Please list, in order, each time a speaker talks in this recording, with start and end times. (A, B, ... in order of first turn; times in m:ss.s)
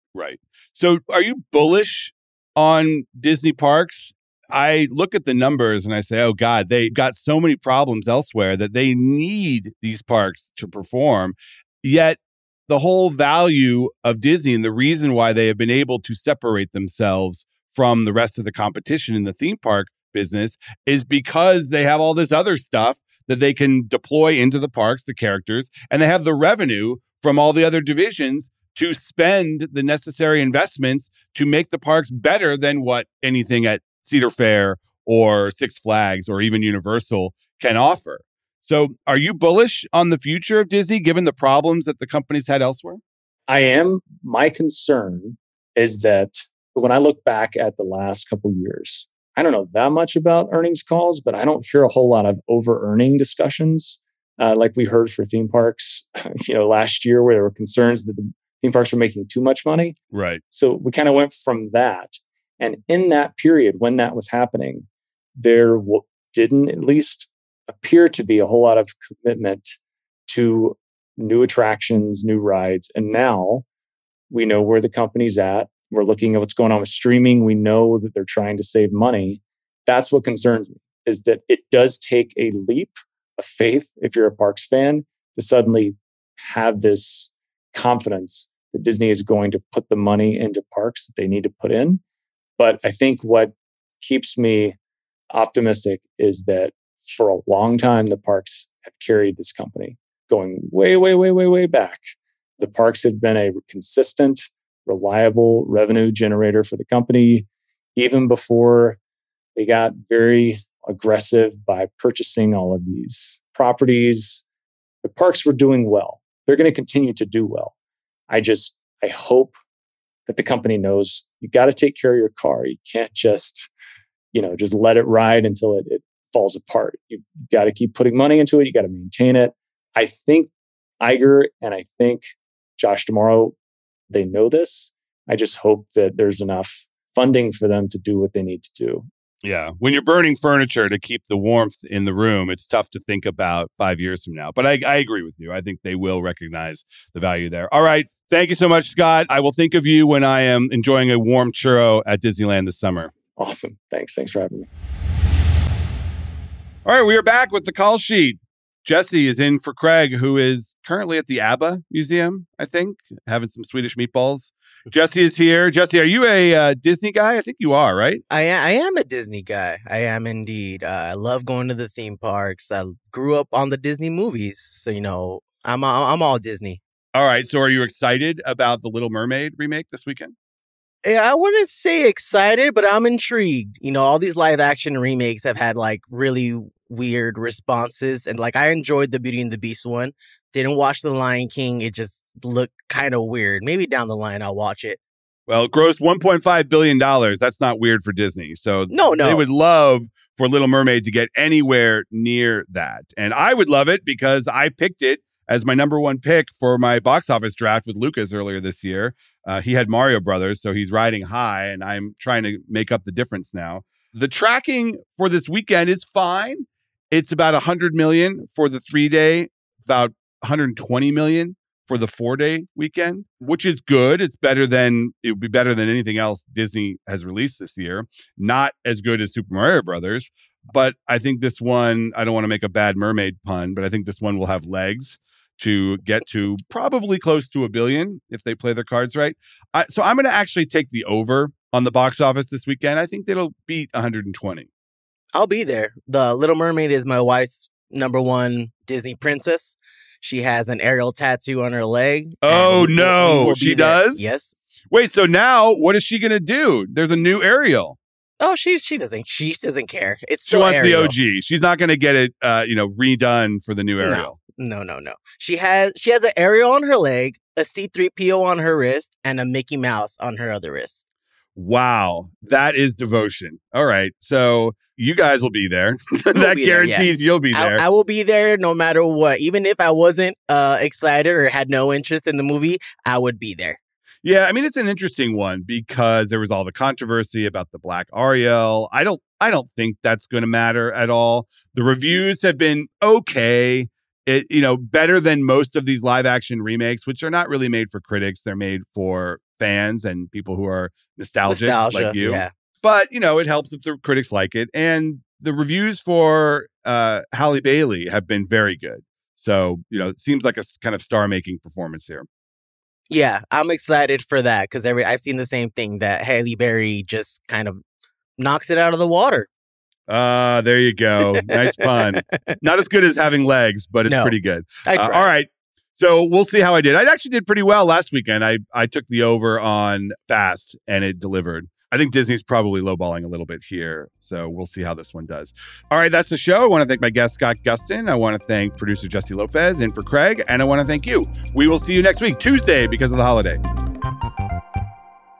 0:00.2-0:43.0 A
0:43.5-1:00.0 B
1:00.1-1:00.4 A
1:00.5-1:04.9 B
1:05.4-1:09.7 B
1:10.3-1:13.6 B
1:14.3-1:32.0 B
1:32.6-1:34.8 B
1:35.3-1:42.0 B
1:42.6-1:49.0 B
1:49.6-1:54.4 B
1:55.0-1:57.7 B
1:58.3-1:59.5 B
2:00.3-2:03.7 B
2:04.3-2:10.5 B
2:11.0-2:13.6 B
2:14.1-2:19.1 B
2:19.4-2:33.1 A
2:33.4-2:34.7 B
2:36.8-2:48.2 A
2:48.3-2:56.8 C
2:57.2-3:00.3 A
3:01.0-3:15.0 C
3:15.5-4:04.7 A
3:18.9-3:19.4 C
4:05.4-4:14.6 C
4:12.4-4:14.2 A
4:14.9-4:18.0 A
4:18.4-4:21.1 C
4:20.5-4:24.4 A
4:24.0-4:31.0 C
4:31.6-4:37.8 A
4:36.4-4:43.8 C
4:44.2-5:12.3 A
5:01.5-5:02.5 C
5:13.1-5:17.8 C
5:18.4-5:19.5 C
5:20.1-5:43.6 A
5:21.3-5:22.6 C
5:24.1-5:25.3 C